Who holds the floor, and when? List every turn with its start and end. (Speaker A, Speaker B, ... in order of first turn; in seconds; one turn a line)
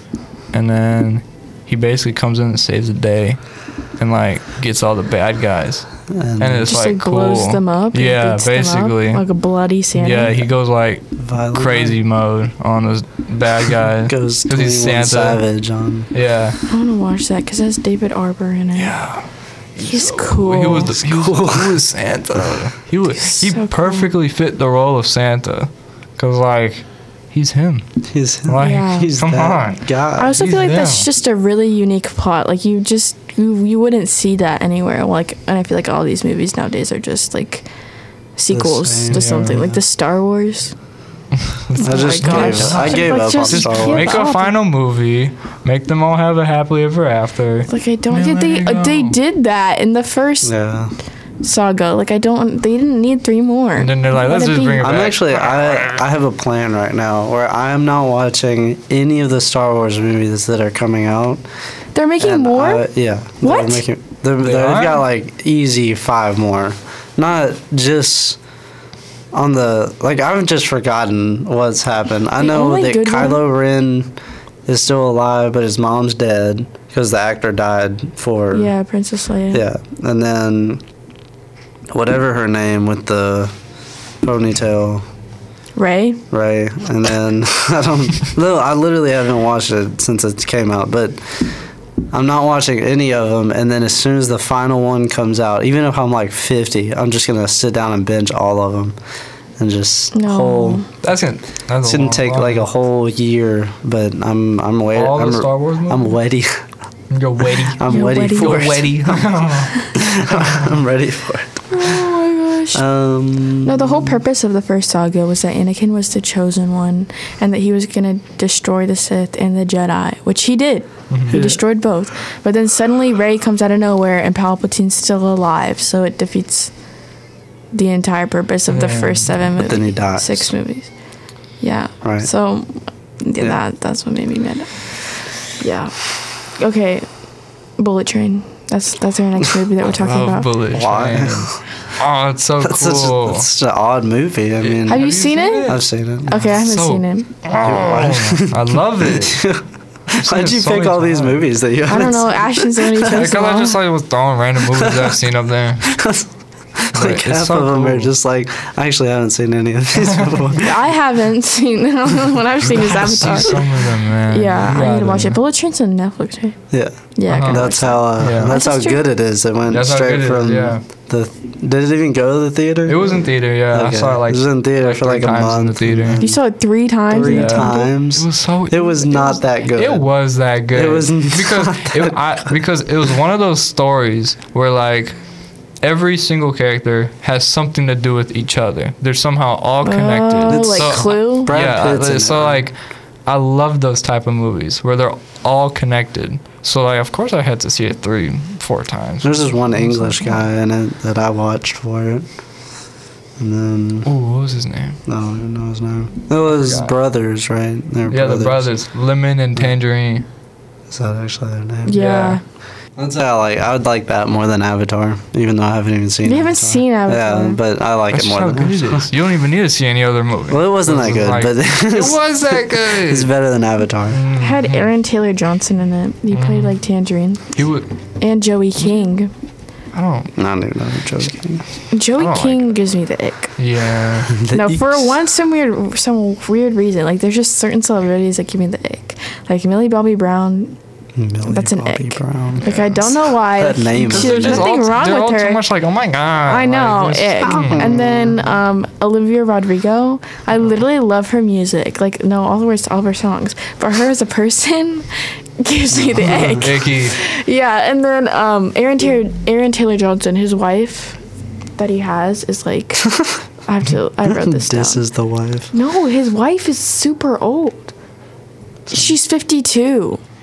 Speaker A: 0.5-9.2
Speaker B: 6.1-6.7
Speaker C: 6.7-10.4
Speaker A: 9.9-15.4
Speaker B: 11.2-11.9
Speaker B: 14.1-16.1
Speaker A: 16.1-16.6
Speaker C: 16.7-18.9
Speaker A: 18.8-27.9
Speaker C: 19.8-20.9
Speaker B: 20.7-21.8
Speaker C: 23.2-24.1
Speaker B: 28.1-30.4
Speaker A: 28.4-31.1
Speaker C: 28.6-29.1
Speaker C: 30.2-37.6
Speaker C: 38.4-40.7
Speaker B: 38.5-39.7
Speaker A: 39.1-39.6
Speaker A: 41.5-49.1
Speaker C: 41.8-44.5
Speaker B: 41.8-44.2
Speaker C: 47.7-50.5
Speaker B: 50.4-50.9
Speaker C: 51.4-54.9
Speaker A: 53.8-56.0
Speaker B: 54.8-61.4
Speaker C: 61.9-62.9
Speaker B: 62.2-68.4
Speaker C: 63.4-63.8
Speaker A: 64.4-65.0
Speaker B: 69.3-74.1
Speaker C: 72.4-73.4
Speaker B: 74.7-78.7
Speaker C: 78.5-79.6
Speaker B: 79.5-80.8
Speaker B: 81.9-83.5
Speaker B: 84.2-85.0
Speaker C: 85.8-86.2
Speaker B: 86.3-91.5
Speaker B: 92.1-98.9
Speaker B: 99.6-100.8
Speaker C: 100.1-100.9
Speaker A: 101.0-102.7
Speaker B: 101.8-106.6
Speaker A: 104.9-106.2
Speaker A: 107.1-110.7
Speaker B: 107.7-109.4
Speaker C: 107.9-108.8
Speaker B: 109.9-111.5
Speaker C: 111.7-112.8
Speaker B: 112.7-114.2
Speaker C: 113.6-126.7
Speaker A: 121.1-121.4
Speaker B: 121.3-121.6
Speaker C: 127.7-130.9
Speaker A: 128.7-129.3
Speaker B: 129.6-130.5
Speaker C: 131.6-137.1
Speaker B: 132.0-132.3
Speaker C: 137.8-140.5
Speaker A: 139.9-143.5
Speaker B: 140.7-141.6
Speaker B: 142.6-145.1
Speaker A: 144.6-149.4
Speaker C: 144.9-145.7
Speaker B: 145.6-146.5
Speaker C: 146.3-147.3
Speaker B: 147.5-153.3
Speaker A: 150.1-151.4
Speaker C: 151.9-153.8
Speaker A: 153.0-155.9
Speaker B: 154.7-155.2
Speaker B: 155.8-160.8
Speaker A: 156.9-158.1
Speaker C: 160.6-163.6
Speaker A: 162.6-165.4
Speaker C: 164.3-166.6
Speaker B: 166.7-176.4
Speaker C: 167.1-169.0
Speaker A: 167.3-168.6
Speaker A: 169.7-170.8
Speaker A: 172.9-176.2
Speaker C: 176.2-177.9
Speaker B: 177.1-180.1
Speaker A: 177.2-185.2
Speaker B: 180.7-182.5
Speaker A: 185.8-200.5
Speaker C: 189.8-191.5
Speaker B: 190.5-192.6
Speaker B: 199.2-202.3
Speaker B: 203.4-204.1
Speaker A: 204.0-205.0
Speaker B: 205.1-208.7
Speaker A: 206.4-206.9
Speaker A: 208.1-210.2
Speaker B: 210.9-212.0
Speaker C: 211.8-212.4
Speaker A: 211.9-212.4
Speaker B: 212.9-219.1
Speaker C: 216.2-217.6
Speaker A: 218.1-223.3
Speaker B: 220.5-224.2
Speaker A: 224.1-224.9
Speaker C: 224.4-227.5
Speaker A: 226.3-226.8
Speaker A: 227.5-227.9
Speaker C: 228.2-229.3
Speaker A: 229.9-230.3
Speaker B: 230.3-231.6
Speaker C: 231.9-233.5
Speaker A: 232.2-232.7
Speaker A: 233.6-234.4
Speaker B: 234.3-235.2
Speaker C: 234.5-240.8
Speaker B: 241.1-244.7
Speaker C: 241.4-245.6
Speaker A: 244.1-247.8
Speaker C: 246.5-255.1
Speaker B: 247.5-248.4
Speaker C: 255.6-261.2
Speaker B: 255.9-256.7
Speaker A: 256.5-257.1
Speaker C: 261.8-263.1
Speaker B: 263.0-263.4
Speaker C: 263.6-265.0
Speaker B: 264.2-265.7
Speaker C: 265.7-267.9
Speaker C: 268.9-270.2